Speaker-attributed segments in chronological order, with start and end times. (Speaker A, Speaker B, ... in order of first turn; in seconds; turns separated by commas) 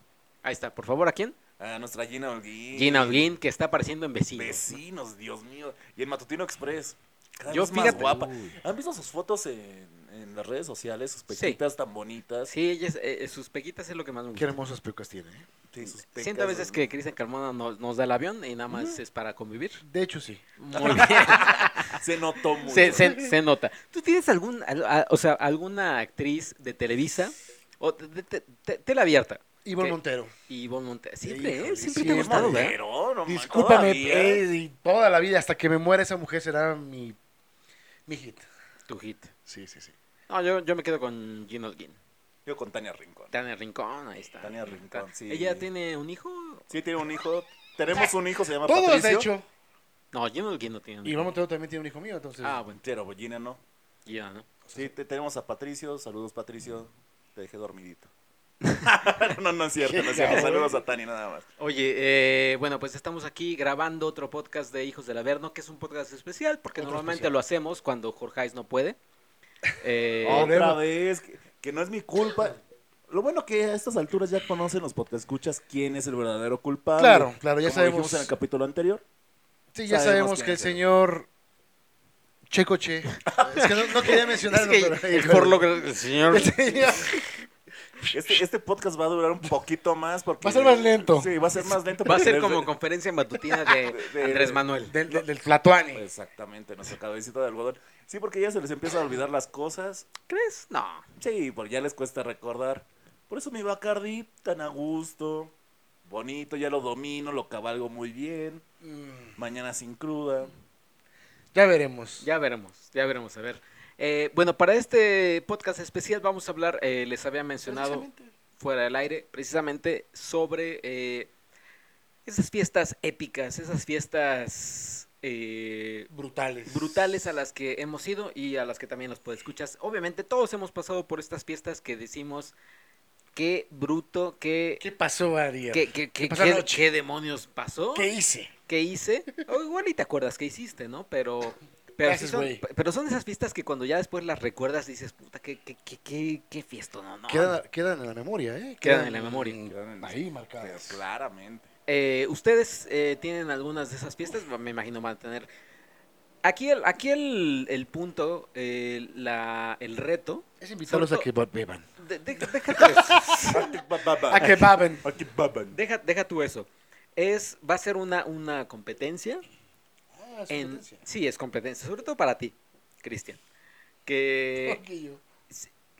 Speaker A: 0.4-1.4, Speaker B: 1.6-3.3, Speaker A: 2.7-4.8, Speaker B: 4.3-12.5, Speaker A: 7.5-8.5, Speaker A: 11.3-11.6, Speaker A: 12.4-14.6, Speaker C: 14.3-15.4, Speaker B: 15.7-16.9, Speaker A: 15.8-19.8, Speaker B: 18.7-19.0, Speaker C: 19.8-21.6, Speaker A: 20.6-22.0, Speaker B: 20.8-23.1, Speaker A: 22.6-30.0, Speaker C: 22.7-23.3, Speaker C: 29.6-30.3, Speaker A: 30.5-32.8, Speaker C: 31.2-37.2, Speaker B: 32.1-34.4, Speaker C: 38.1-38.5, Speaker A: 38.9-39.3, Speaker C: 39.5-39.9, Speaker A: 40.3-42.0, Speaker B: 42.5-43.3, Speaker A: 43.3-46.6, Speaker B: 44.4-45.6, Speaker B: 46.7-49.3, Speaker C: 47.9-49.4, Speaker A: 50.1-51.2, Speaker C: 51.0-52.6, Speaker A: 52.4-52.8, Speaker B: 52.8-53.6, Speaker A: 54.0-54.5, Speaker C: 54.6-54.9, Speaker B: 54.7-58.1, Speaker B: 58.7-61.4, Speaker C: 59.8-60.8, Speaker A: 61.6-69.0, Speaker C: 66.8-67.3, Speaker A: 69.8-70.5, Speaker C: 70.2-70.8, Speaker B: 70.2-79.0, Speaker C: 77.0-78.3, Speaker C: 79.7-81.3, Speaker B: 79.8-80.8, Speaker C: 82.5-87.3, Speaker B: 83.3-84.1, Speaker A: 83.5-87.1, Speaker C: 88.0-88.4, Speaker B: 88.0-92.7, Speaker C: 90.4-91.3, Speaker A: 92.0-95.0, Speaker B: 93.7-95.2, Speaker C: 94.8-96.0, Speaker B: 95.9-100.0, Speaker A: 100.3-101.0, Speaker B: 101.2-105.5, Speaker B: 106.0-108.6, Speaker C: 108.8-109.3, Speaker B: 109.3-110.5, Speaker C: 111.5-112.2, Speaker A: 112.2-118.1, Speaker C: 117.7-118.3, Speaker A: 118.6-121.3, Speaker A: 122.2-126.1, Speaker C: 126.1-127.1, Speaker A: 126.7-132.5, Speaker A: 133.3-134.8, Speaker C: 134.8-136.8, Speaker A: 135.7-138.1, Speaker C: 137.9-138.5, Speaker A: 138.7-147.6, Speaker C: 142.0-142.6, Speaker C: 147.3-151.0, Speaker A: 148.8-149.6, Speaker B: 149.7-151.7, Speaker A: 151.9-155.5, Speaker A: 156.4-161.3, Speaker C: 160.6-161.8, Speaker A: 162.0-163.7, Speaker C: 162.4-163.7, Speaker B: 163.4-165.8, Speaker C: 164.3-165.1, Speaker A: 164.3-164.7, Speaker A: 165.7-169.4, Speaker C: 170.1-171.0, Speaker A: 170.5-173.4, Speaker A: 174.1-174.8, Speaker C: 174.6-175.2